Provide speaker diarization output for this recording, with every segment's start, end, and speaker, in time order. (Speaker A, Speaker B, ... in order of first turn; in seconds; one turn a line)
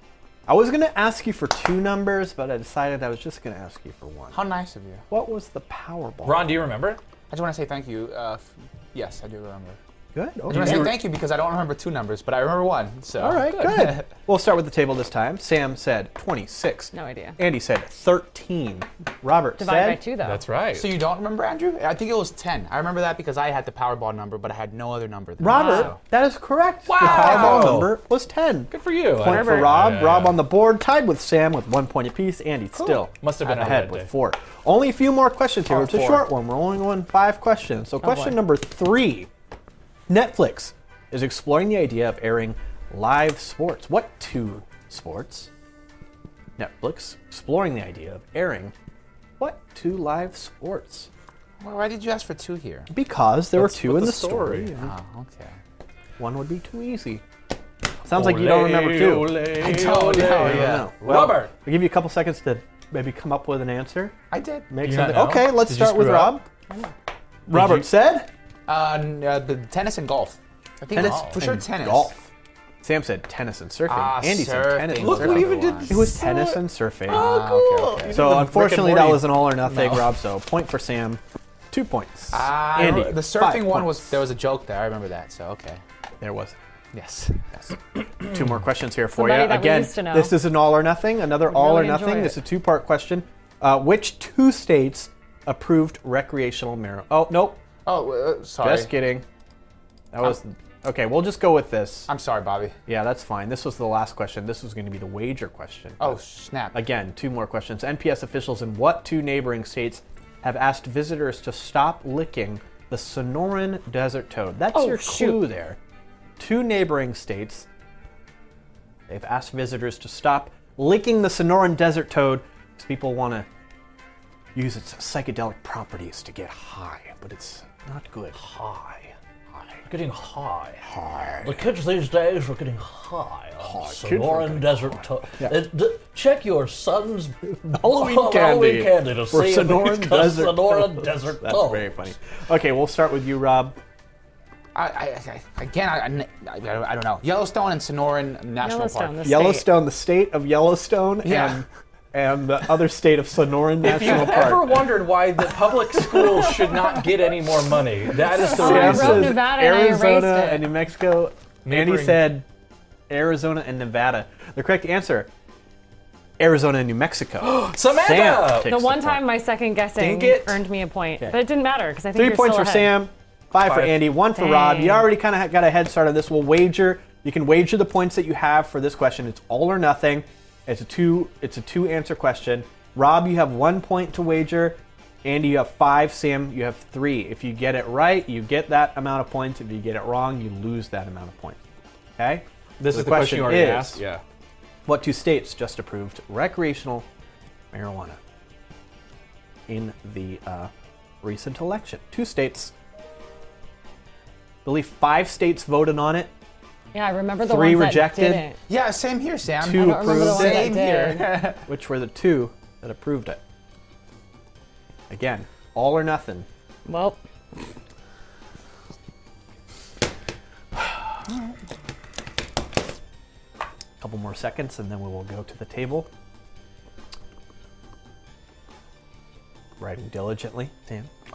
Speaker A: 0.5-4.4
Speaker B: 4.3-5.0
Speaker A: 5.1-6.6
Speaker C: 6.2-7.0
Speaker B: 7.3-9.8
Speaker A: 10.1-11.0
Speaker B: 10.5-14.1
Speaker C: 10.5-10.9
Speaker A: 13.2-20.0
Speaker D: 16.9-17.4
Speaker D: 19.6-20.4
Speaker C: 20.2-20.9
Speaker B: 20.8-26.0
Speaker A: 25.4-39.3
Speaker D: 25.5-25.9
Speaker C: 26.9-27.9
Speaker B: 27.0-27.7
Speaker C: 28.7-30.4
Speaker C: 33.1-34.1
Speaker C: 35.7-36.2
Speaker D: 38.0-38.4
Speaker A: 40.1-45.5
Speaker A: 46.6-48.7
Speaker A: 49.4-51.1
Speaker B: 51.6-52.9
Speaker A: 52.9-54.9
Speaker C: 53.5-54.7
Speaker B: 54.8-55.6
Speaker A: 56.2-57.2
Speaker A: 58.0-64.2
Speaker C: 58.1-61.5
Speaker B: 59.6-60.9
Speaker B: 64.3-64.7
Speaker A: 64.7-66.5
Speaker C: 64.8-66.4
Speaker A: 67.5-68.3
Speaker C: 67.5-67.9
Speaker B: 68.7-72.1
Speaker A: 70.9-72.3
Speaker C: 71.0-71.4
Speaker A: 72.8-77.4
Speaker B: 73.9-76.1
Speaker C: 75.0-80.1
Speaker B: 77.1-78.2
Speaker A: 78.1-84.2
Speaker B: 82.3-85.8
Speaker A: 86.2-86.6
Speaker B: 86.9-87.8
Speaker A: 88.2-97.6
Speaker D: 89.1-90.3
Speaker D: 91.5-92.4
Speaker B: 97.9-98.9
Speaker A: 98.6-99.2
Speaker A: 100.1-102.1
Speaker B: 102.1-102.8
Speaker A: 102.9-106.2
Speaker B: 106.0-106.8
Speaker A: 106.7-115.8
Speaker D: 114.7-115.4
Speaker A: 116.4-117.7
Speaker A: 119.1-123.5
Speaker A: 124.5-128.9
Speaker A: 129.5-129.8
Speaker E: 129.9-130.8
Speaker A: 130.8-131.7
Speaker E: 131.4-141.9
Speaker A: 133.6-135.7
Speaker A: 137.5-143.8
Speaker B: 144.8-149.4
Speaker D: 148.6-149.7
Speaker A: 149.2-154.8
Speaker B: 151.2-151.6
Speaker C: 153.8-159.4
Speaker A: 158.4-162.5
Speaker D: 158.4-160.7
Speaker C: 161.7-162.4
Speaker A: 163.1-165.3
Speaker A: 166.4-169.3
Speaker C: 167.4-168.8
Speaker D: 168.7-173.1
Speaker C: 170.0-170.6
Speaker A: 172.1-191.6
Speaker C: 173.6-174.0
Speaker D: 174.3-175.1
Speaker A: 192.2-194.0
Speaker C: 192.8-194.2
Speaker A: 194.8-197.1
Speaker A: 197.7-198.2
Speaker A: 199.7-200.7
Speaker A: 201.2-202.7
Speaker A: 204.7-206.3
Speaker D: 206.9-208.6
Speaker A: 207.4-208.5
Speaker B: 208.7-211.6
Speaker A: 209.6-210.9
Speaker D: 209.7-211.4
Speaker A: 211.6-213.4
Speaker A: 215.1-216.5
Speaker D: 216.9-217.2
Speaker A: 224.0-226.1
Speaker A: 229.8-231.1